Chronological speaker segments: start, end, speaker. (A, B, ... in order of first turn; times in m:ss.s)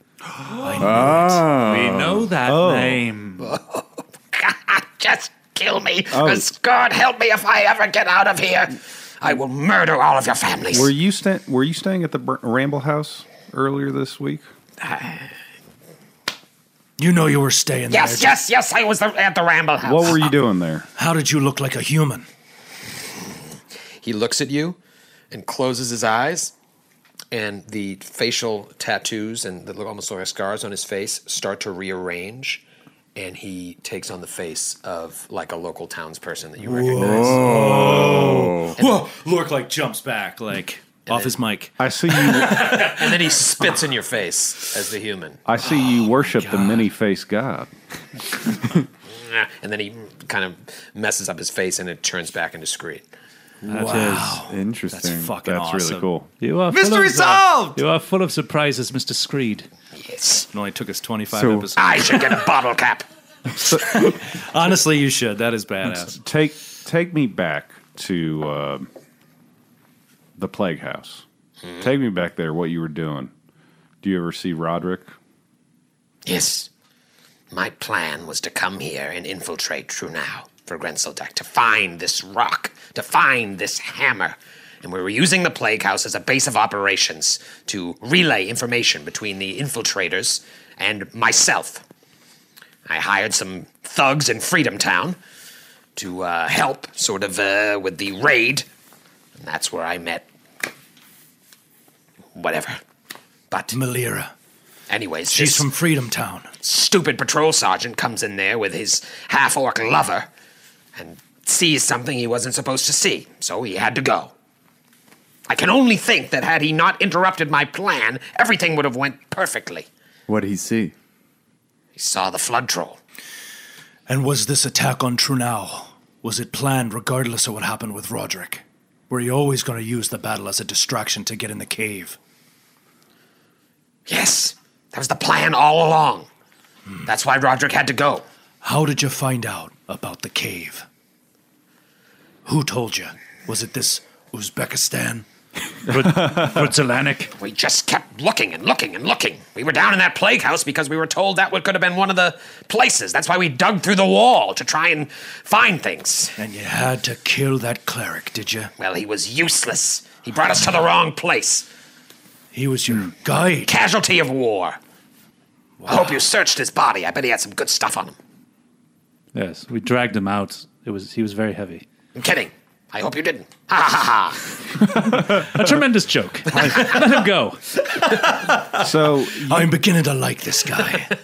0:00.6-0:01.3 A
0:00.8-0:02.3 B
0:01.5-0:03.5 C
0:02.4-0:03.0 D
0:03.4-0:10.9 E
0:06.1-0:06.5 D
0:10.7-0:14.4 D
0:14.8-0:15.3 E
0:17.0-0:18.4 A
0:17.9-0:20.4 E
0:19.8-0:20.9 D
0:21.0-0:22.3 A
0:24.0-0:24.8 E
0:25.3-0:26.5 E
0:27.3-0:32.6 E
0:33.2-0:37.7 E
0:36.7-0:38.5 A
0:37.0-0:38.8 B
0:37.2-0:41.8 F
0:41.1-0:41.4 E
0:41.8-0:42.8 D
0:42.5-0:45.4 E
0:45.4-0:47.7 D
0:46.4-0:46.8 F
0:49.1-0:53.1 E
0:53.6-0:56.1 F
0:53.7-0:54.4 C
0:53.8-0:54.3 A
0:54.5-0:55.3 B
0:55.4-0:56.3 D
0:56.4-0:59.7 C
0:56.7-0:57.8 F
1:00.0-1:00.5 E
1:00.5-1:02.4 F
1:01.3-1:01.7 B
1:01.8-1:03.0 E
1:03.9-1:06.2 F
1:06.0-1:08.9 D
1:10.4-1:11.2 D
1:11.6-1:11.9 E
1:11.8-1:13.3 D
1:14.0-1:15.1 D
1:16.2-1:16.7 E
1:17.5-1:31.8 E
1:32.9-1:35.2 E
1:36.0-1:38.7 E
1:39.4-1:40.3 E
1:42.4-1:42.8 E
1:43.7-1:44.3 A
1:44.9-1:45.7 E
1:45.3-1:46.5 A
1:46.6-1:50.3 E
1:51.0-1:54.3 E
1:55.5-1:59.9 E
2:00.3-2:00.9 B
2:02.0-2:03.0 E
2:04.1-2:12.2 A
2:14.1-2:16.3 E
2:17.0-2:18.2 E
2:18.6-2:20.9 A
2:22.4-2:25.2 A
2:25.9-2:27.3 C
2:27.4-2:36.4 E
2:36.4-2:38.7 A
2:38.8-2:41.7 E
2:42.5-2:43.7 A
2:43.7-2:44.8 E
2:45.9-2:48.2 E
2:49.3-2:51.8 C
2:52.2-2:54.5 E
2:55.0-2:57.6 C
2:55.1-2:55.4 D
2:58.8-2:59.7 D
2:58.8-3:01.1 A